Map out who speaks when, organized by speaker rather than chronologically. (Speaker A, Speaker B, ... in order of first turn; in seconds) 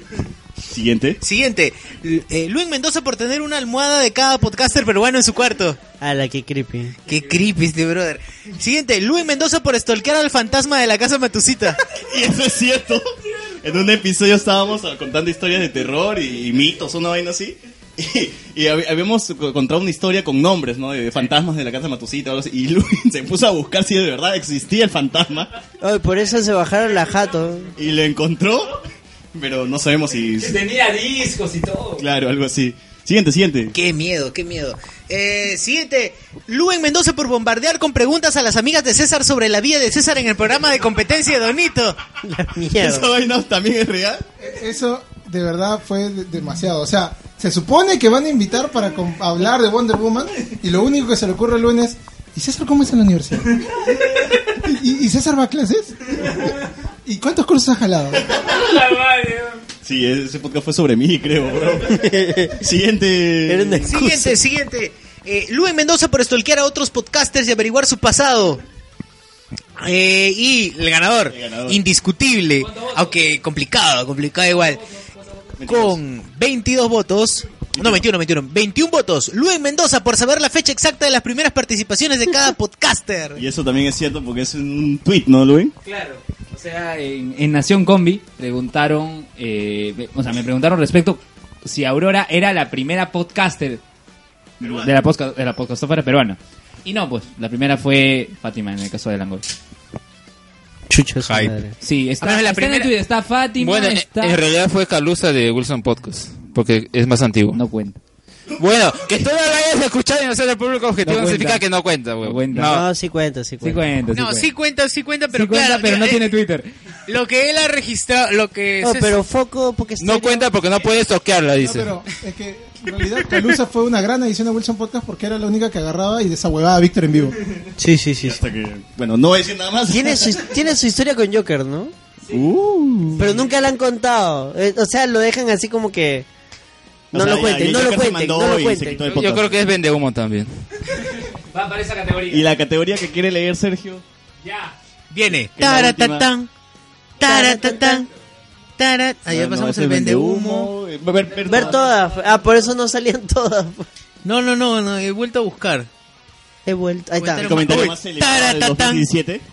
Speaker A: 0.7-1.2, 12.0-13.1, 13.6-25.5, 27.8-28.8, 29.3-30.6, 32.0-33.8, 42.8-44.2, 59.8-63.9, 71.3-71.8, 75.6-76.0, 77.7-78.0, 83.4-85.7, 94.6-94.9, 128.2-130.5, 132.3-133.4, 137.1-139.6, 142.3-144.0, 145.6-146.3, 149.3-151.9, 157.4-159.4
Speaker B: 1.2-5.8, 7.1-11.8, 33.7-42.0, 63.9-68.6, 69.8-74.8, 75.7-83.5, 101.2-101.5, 102.2-102.9, 114.1-116.4, 117.1-119.2, 145.1-146.5, 147.2-148.1, 148.8-150.7, 154.2-155.9, 157.2-159.1
Speaker C: 6.0-7.0, 25.8-27.7, 42.2-43.1, 61.9-62.6, 63.5-64.4, 100.9-101.8, 112.7-113.9, 118.8-120.5, 127.8-128.4, 129.9-131.9, 133.2-136.3, 137.1-139.1, 147.2-148.1, 151.4-153.9, 156.7-157.6
Speaker D: 30.4-32.0, 58.5-59.6, 72.6-73.4, 74.5-75.6, 85.8-93.8, 94.6-99.5, 101.8-104.4, 107.5-108.0, 111.0-111.6, 112.2-112.8, 113.6-114.5, 115.3-116.7, 141.0-142.5, 144.4-144.8, 151.3-152.4
Speaker E: 44.4-53.9, 54.5-56.5, 57.0-58.4, 121.6-127.4
Speaker F: 103.6-107.6, 108.6-112.8, 120.0-121.9, 139.1-140.5